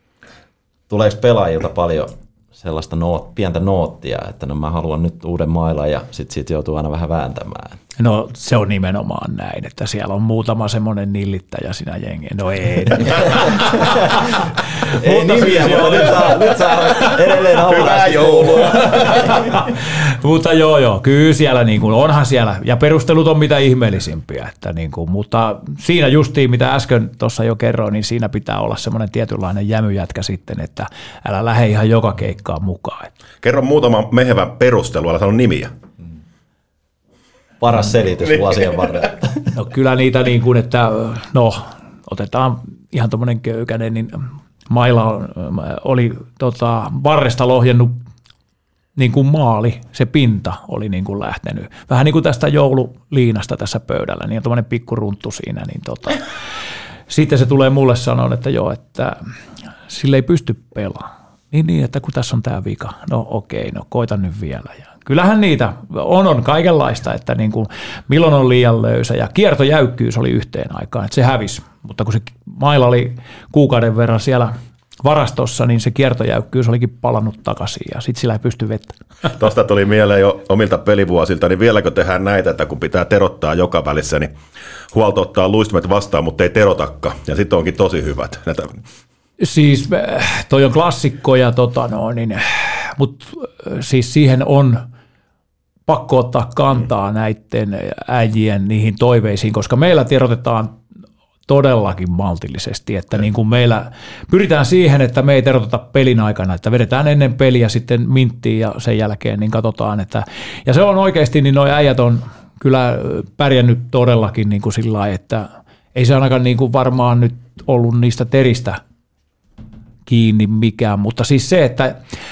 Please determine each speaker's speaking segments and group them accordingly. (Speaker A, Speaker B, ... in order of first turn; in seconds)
Speaker A: 0.9-7.8, 13.6-14.2, 14.9-19.6, 37.6-39.5
Speaker B: 8.0-17.2, 18.8-33.1, 39.5-48.0, 49.0-56.2, 57.1-59.2, 59.9-79.0, 89.4-94.8, 95.9-100.8, 101.5-118.8, 120.0-122.0
Speaker C: 17.8-19.1, 33.4-35.7, 79.3-84.3, 84.9-88.8